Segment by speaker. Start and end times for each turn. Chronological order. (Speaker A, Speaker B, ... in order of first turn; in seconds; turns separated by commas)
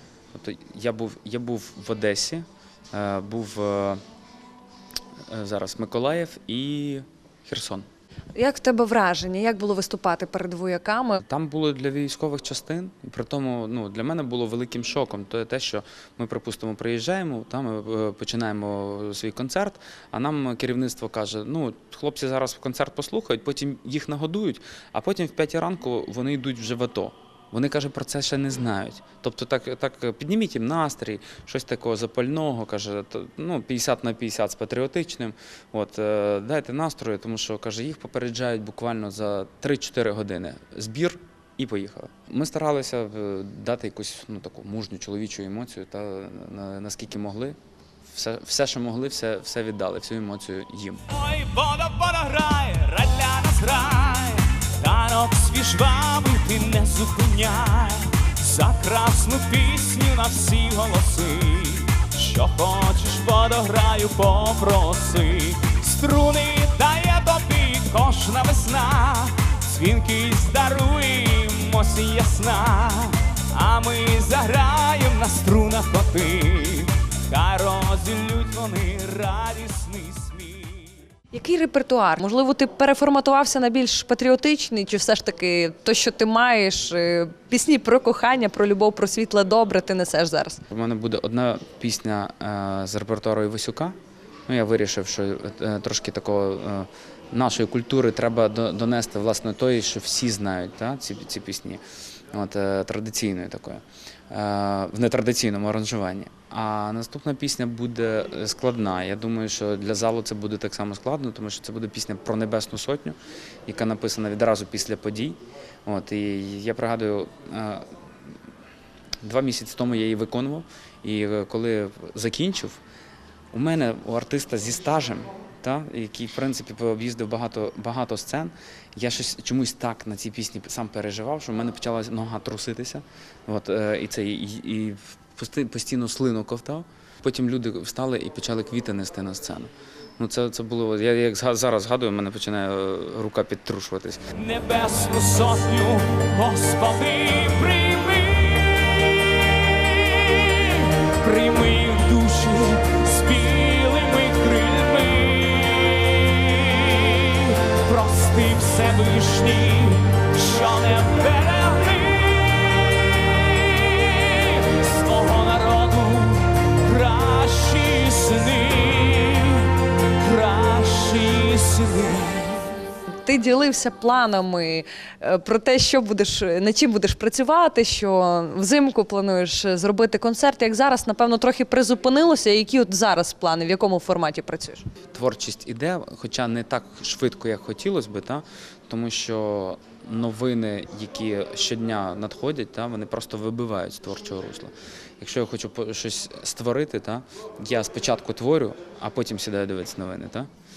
Speaker A: 0.3-4.0, Speaker A: 5.3-7.9, Speaker B: 8.3-11.2, Speaker A: 11.2-47.6, Speaker A: 48.1-51.0, Speaker C: 51.1-81.0, Speaker B: 81.3-90.6, Speaker A: 90.7-94.0, Speaker A: 94.5-101.8, Speaker A: 102.3-113.2, Speaker A: 113.7-117.9, Speaker A: 119.2-122.8, Speaker A: 123.5-144.2, Speaker C: 144.4-169.7, Speaker C: 170.2-172.7, Speaker B: 173.2-184.8, Speaker A: 185.1-200.5